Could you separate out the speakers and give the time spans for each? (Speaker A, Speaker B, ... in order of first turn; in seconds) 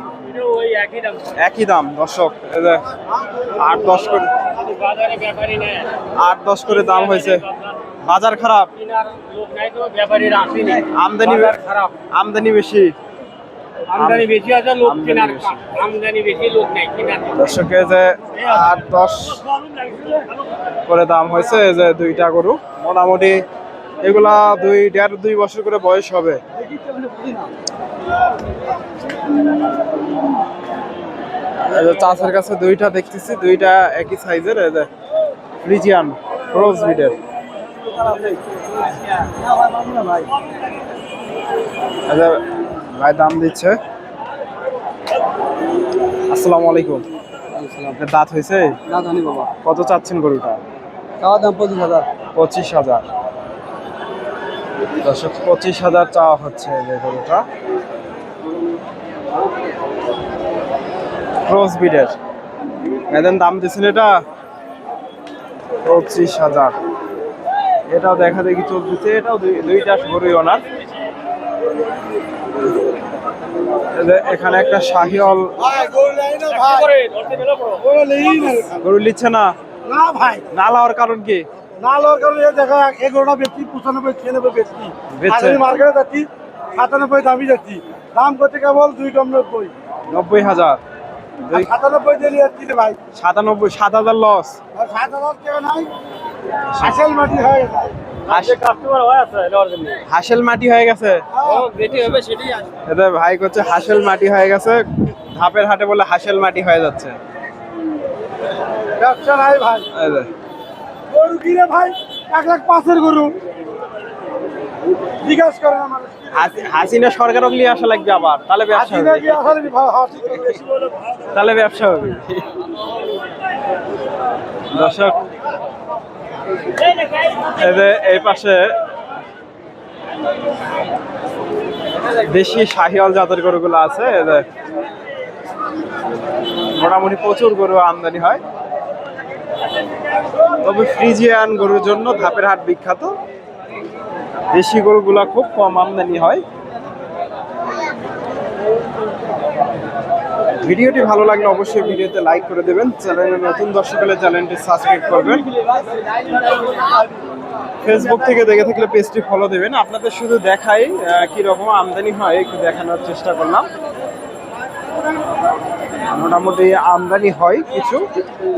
Speaker A: 0.2-1.3, 4.6-5.9, 8.8-11.9, 13.9-17.4, 76.6-77.8, 98.3-100.0, 101.4-102.7
Speaker B: 1.4-2.8, 3.5-4.3, 6.2-7.4, 8.0-8.7, 10.8-11.6, 12.1-12.9, 13.9-15.6, 17.3-19.4, 20.9-23.4, 24.0-26.4, 31.6-34.9, 35.6-37.2, 42.1-43.8, 46.3-47.0, 47.9-48.8, 49.6-50.6, 52.3-53.0, 55.0-57.5, 61.5-62.1, 63.1-64.2, 65.8-66.7, 67.9-70.6, 73.9-75.5, 78.8-79.5, 80.5-81.4, 85.1-85.7, 90.1-90.8, 91.4-91.7, 93.1-94.6, 96.7-97.0, 98.3-98.6, 100.0-101.2, 101.8-102.2, 102.8-107.2, 109.9-110.3, 116.3-119.7, 121.3-122.5, 124.7-125.2, 127.5-128.7, 132.1-134.4, 136.7-138.4, 140.6-143.1, 144.5-146.4, 150.6-155.4, 157.8-163.7, 166.1-168.1
Speaker C: 39.4-40.3, 47.6-48.0, 48.9-49.5, 51.2-52.1
Speaker D: 75.6-76.9, 77.7-78.8, 79.8-80.4, 81.8-89.7, 91.5-93.0, 94.7-95.9, 96.8-98.0, 101.3-101.7, 109.0-109.9, 111.1-113.3, 115.2-116.3, 118.7-121.0